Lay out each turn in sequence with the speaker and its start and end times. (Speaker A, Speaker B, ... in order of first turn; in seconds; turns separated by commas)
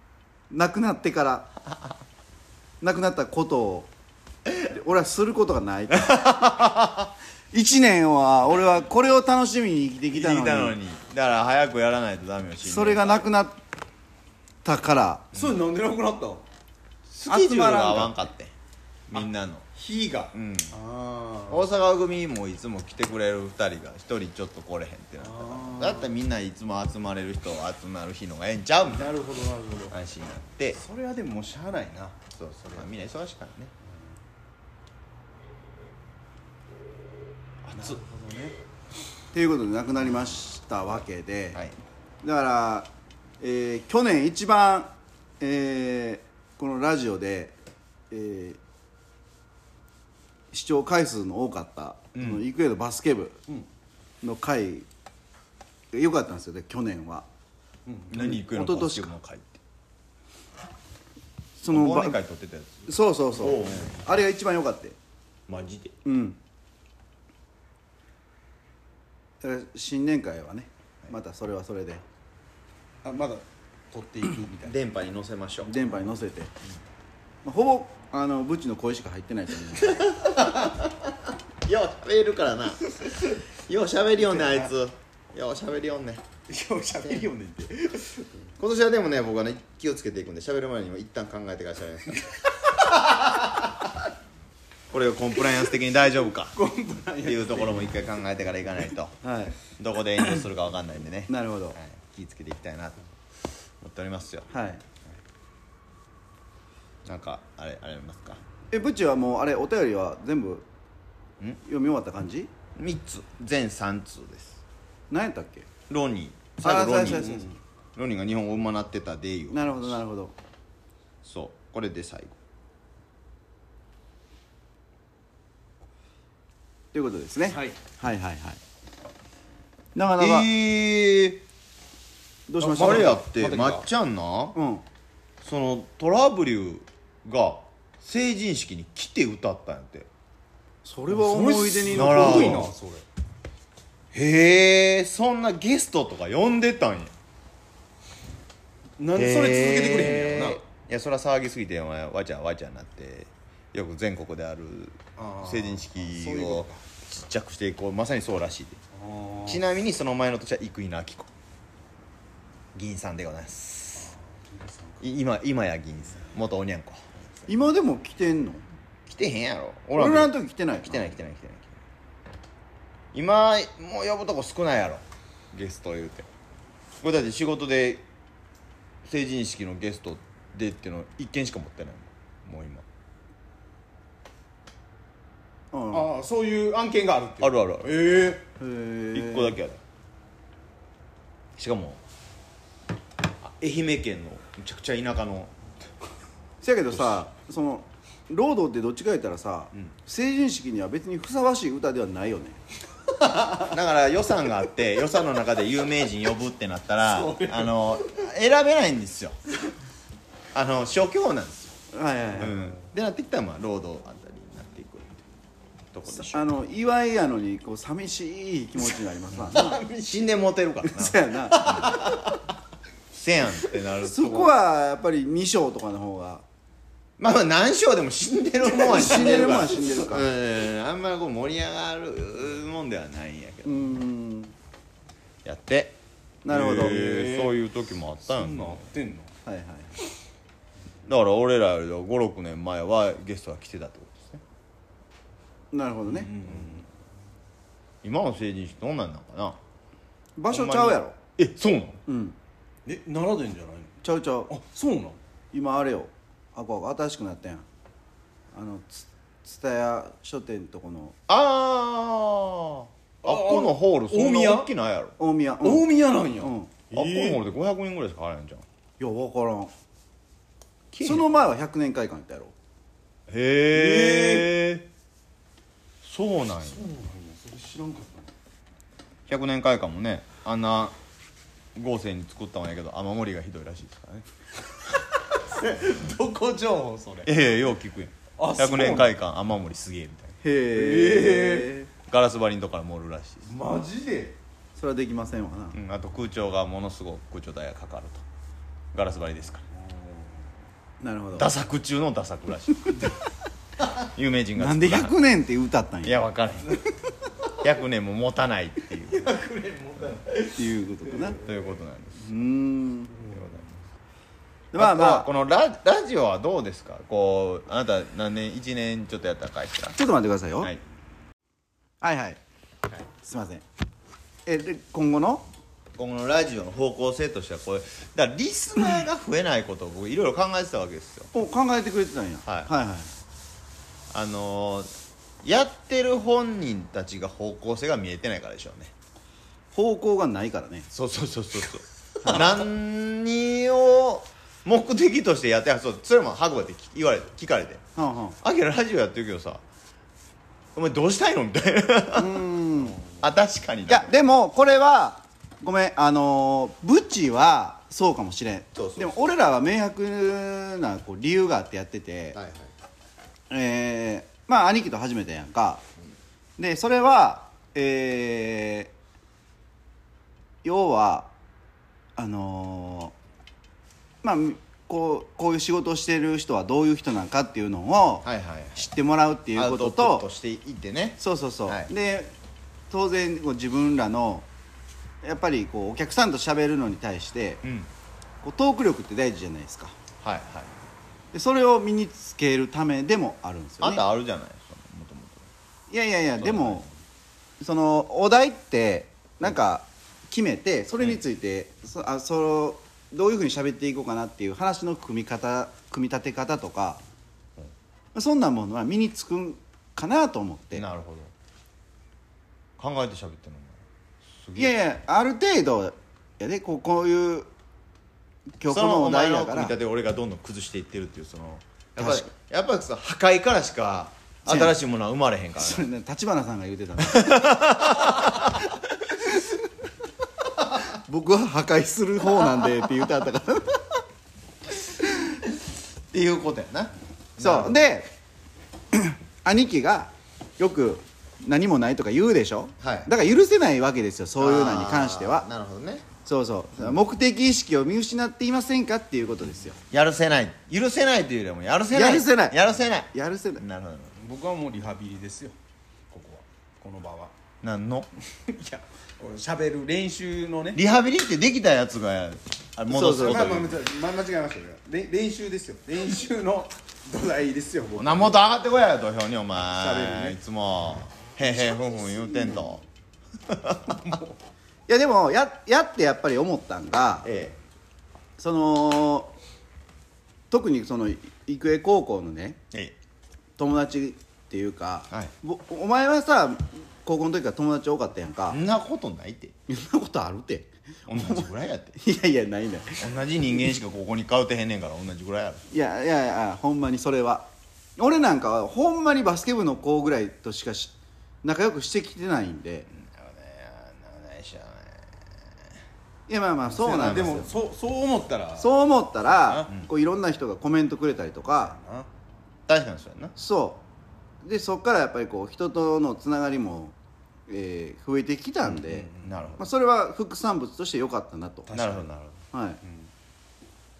Speaker A: 0.5-1.5, Speaker A: 2.8-3.9, Speaker A: 4.6-6.5, Speaker B: 6.0-7.1, Speaker A: 7.5-10.8, Speaker B: 10.1-13.3, Speaker A: 12.6-13.6, Speaker A: 14.7-15.3, Speaker C: 15.3-16.4, Speaker B: 15.3-15.6, Speaker B: 17.2-18.5, Speaker A: 17.3-18.2, Speaker B: 19.1-19.7, Speaker C: 19.8-21.7, Speaker B: 20.3-20.8, Speaker B: 21.5-29.1, Speaker C: 25.2-26.1, Speaker C: 28.9-30.0, Speaker B: 29.9-30.8, Speaker C: 30.8-32.2, Speaker B: 32.3-33.7, Speaker B: 37.7-38.0, Speaker C: 37.7-38.6, Speaker A: 39.3-41.6, Speaker A: 42.2-42.9, Speaker A: 43.4-47.6, Speaker A: 48.1-48.6, Speaker A: 50.5-53.4, Speaker B: 52.1-52.4, Speaker A: 54.2-54.9, Speaker A: 55.9-57.3, Speaker C: 57.9-58.2, Speaker B: 58.1-59.6, Speaker A: 58.1-59.1, Speaker A: 61.6-62.2, Speaker B: 61.7-64.0, Speaker A: 62.9-65.0, Speaker B: 65.5-66.0, Speaker A: 66.0-66.4, Speaker A: 69.4-72.0, Speaker C: 73.0-74.8, Speaker B: 74.7-75.7, Speaker A: 75.7-76.5, Speaker A: 77.4-80.2, Speaker B: 79.8-81.1, Speaker B: 81.6-83.0, Speaker C: 83.0-83.4, Speaker B: 83.5-86.2, Speaker C: 84.3-84.7, Speaker C: 86.5-88.3, Speaker B: 88.6-92.2, Speaker B: 94.9-96.5, Speaker C: 96.5-97.9, Speaker B: 97.2-103.1, Speaker A: 99.2-99.6, Speaker A: 101.3-101.8, Speaker B: 103.8-104.5, Speaker A: 104.5-104.8, Speaker B: 107.1-108.4, Speaker A: 108.7-110.7, Speaker A: 111.6-112.5, Speaker B: 112.8-114.6, Speaker A: 115.1-115.7, Speaker B: 115.9-117.4, Speaker A: 116.6-117.4, Speaker C: 116.8-117.6, Speaker B: 118.0-120.0, Speaker A: 119.5-120.4, Speaker B: 121.2-122.4, Speaker A: 126.9-128.6, Speaker C: 127.5-127.8, Speaker A: 129.9-130.5, Speaker B: 130.2-131.4, Speaker A: 132.5-133.1, Speaker C: 132.6-133.9, Speaker B: 132.8-134.6, Speaker A: 134.6-134.8, Speaker B: 135.4-140.1, Speaker A: 140.8-142.7, Speaker C: 141.1-143.1, Speaker B: 141.9-142.7, Speaker B: 144.1-147.1, Speaker C: 149.0-150.6, Speaker B: 149.2-158.8, Speaker C: 155.2-156.8, Speaker C: 158.9-159.6, Speaker B: 159.5-161.3, Speaker B: 162.7-164.1, Speaker C: 164.0-165.0, Speaker B: 165.0-167.1, Speaker A: 167.5-168.7, Speaker B: 169.1-171.8, Speaker A: 170.0-171.1, Speaker B: 173.1-176.3, Speaker B: 177.0-178.1, Speaker B: 179.1-182.8, Speaker A: 185.7-186.1, Speaker C: 185.9-188.4, Speaker B: 187.4-188.0, Speaker A: 188.6-189.6, Speaker B: 189.1-189.8, Speaker B: 191.6-192.0, Speaker B: 193.4-195.5, Speaker A: 196.6-202.6, Speaker B: 203.3-209.4, Speaker C: 207.1-207.9, Speaker B: 210.5-211.8, Speaker A: 211.9-212.6, Speaker B: 212.3-215.2, Speaker B: 215.9-216.5, Speaker A: 216.1-219.8, Speaker C: 219.5-220.3, Speaker B: 220.1-222.2, Speaker A: 220.8-222.1, Speaker C: 221.5-222.4, Speaker B: 223.1-224.6, Speaker A: 224.0-226.4, Speaker B: 227.2-233.8, Speaker A: 228.8-230.3, Speaker C: 228.8-229.7, Speaker A: 233.7-234.5, Speaker B: 235.4-236.0, Speaker A: 236.4-237.0, Speaker B: 236.5-238.9, Speaker C: 236.5-237.6, Speaker C: 238.3-239.3, Speaker A: 239.5-240.0, Speaker B: 241.1-244.4, Speaker A: 245.7-246.4, Speaker C: 246.1-246.8, Speaker B: 248.0-249.6, Speaker A: 250.4-251.2, Speaker B: 250.5-252.0, Speaker A: 252.1-252.4, Speaker C: 252.8-254.0, Speaker A: 254.0-254.5, Speaker C: 254.5-255.2, Speaker A: 255.5-257.7, Speaker A: 258.5-261.2, Speaker B: 261.3-265.2, Speaker C: 263.2-264.7, Speaker A: 265.2-265.9, Speaker C: 265.6-267.4, Speaker A: 266.4-266.8, Speaker B: 266.9-268.7, Speaker A: 269.0-269.7, Speaker B: 270.9-271.3, Speaker A: 271.0-272.5, Speaker B: 273.3-274.9, Speaker C: 273.7-274.5, Speaker B: 276.0-276.9, Speaker C: 276.6-278.3, Speaker B: 279.3-281.0, Speaker B: 281.8-284.3, Speaker C: 284.9-287.3, Speaker B: 287.3-290.4, Speaker C: 288.4-289.1, Speaker A: 290.4-291.9, Speaker C: 290.7-291.7, Speaker B: 292.1-293.6, Speaker C: 293.5-294.4, Speaker A: 294.8-295.8, Speaker B: 295.7-298.2, Speaker B: 298.9-299.6, Speaker C: 299.8-300.4, Speaker A: 301.0-301.5, Speaker B: 301.4-303.0, Speaker B: 304.0-305.1, Speaker A: 304.6-306.3, Speaker B: 306.0-306.7, Speaker B: 307.6-309.4, Speaker C: 309.1-311.6, Speaker A: 310.5-311.4, Speaker B: 311.4-312.2, Speaker A: 312.2-313.2, Speaker C: 313.2-313.6, Speaker B: 313.3-313.7, Speaker A: 314.7-315.3, Speaker B: 314.8-320.0, Speaker A: 320.0-320.7, Speaker A: 322.0-322.4, Speaker A: 323.2-323.6, Speaker A: 324.5-325.4, Speaker B: 326.0-331.3, Speaker A: 331.3-333.1, Speaker B: 334.1-334.9, Speaker B: 335.4-338.9, Speaker A: 339.7-340.9, Speaker B: 340.9-347.8, Speaker A: 342.2-342.5, Speaker A: 348.0-348.4, Speaker B: 348.4-349.6, Speaker B: 350.8-352.4, Speaker A: 352.1-353.0, Speaker B: 353.0-354.2, Speaker A: 353.9-362.4, Speaker B: 358.8-359.3, Speaker B: 362.4-362.7, Speaker A: 363.5-365.8, Speaker A: 366.6-368.9, Speaker A: 370.6-371.3, Speaker A: 372.2-373.1, Speaker A: 374.2-380.3, Speaker B: 378.2-378.9, Speaker B: 379.5-381.9, Speaker A: 381.2-382.3, Speaker A: 382.9-384.5, Speaker A: 385.2-387.6, Speaker B: 387.6-387.9, Speaker A: 388.4-390.0, Speaker B: 390.2-390.7, Speaker A: 391.3-394.0, Speaker B: 393.8-395.5, Speaker A: 395.9-396.9, Speaker B: 396.4-396.9, Speaker A: 397.6-407.0, Speaker A: 408.1-410.9, Speaker B: 410.8-411.3, Speaker B: 412.8-414.8, Speaker A: 414.6-417.5, Speaker A: 418.6-419.8, Speaker B: 418.7-425.9, Speaker A: 422.0-422.3, Speaker A: 424.5-424.8, Speaker A: 425.6-427.9, Speaker B: 427.0-428.7, Speaker A: 429.3-429.6, Speaker A: 430.8-434.0, Speaker B: 436.1-437.8, Speaker A: 437.4-438.1, Speaker A: 438.9-445.5, Speaker B: 442.8-443.1, Speaker B: 444.4-446.1, Speaker A: 446.2-449.8, Speaker B: 449.9-454.1, Speaker A: 451.9-452.6, Speaker A: 453.1-453.6, Speaker C: 454.2-455.6, Speaker C: 456.1-457.3, Speaker B: 457.6-458.1, Speaker C: 458.4-460.8, Speaker B: 460.8-463.8, Speaker A: 462.9-463.6, Speaker C: 463.2-468.4, Speaker B: 468.0-472.8, Speaker C: 469.8-470.4, Speaker B: 473.5-474.2, Speaker C: 474.0-474.3, Speaker A: 474.9-477.3, Speaker B: 477.2-477.6, Speaker A: 478.4-479.3, Speaker A: 480.5-482.6, Speaker A: 483.6-488.6, Speaker B: 488.5-489.5, Speaker A: 489.7-493.1, Speaker B: 491.1-491.9, Speaker B: 493.0-495.6, Speaker A: 495.7-502.9, Speaker B: 502.9-505.3, Speaker A: 506.3-507.5, Speaker C: 506.7-508.8, Speaker A: 508.6-511.8, Speaker C: 509.3-509.7, Speaker C: 511.8-512.1, Speaker B: 512.7-513.3, Speaker A: 513.4-513.8, Speaker A: 514.4-517.0, Speaker A: 517.5-521.7, Speaker C: 518.7-519.4, Speaker B: 519.2-519.7, Speaker C: 521.7-522.1, Speaker B: 521.7-522.4, Speaker A: 522.5-522.8, Speaker C: 522.8-523.1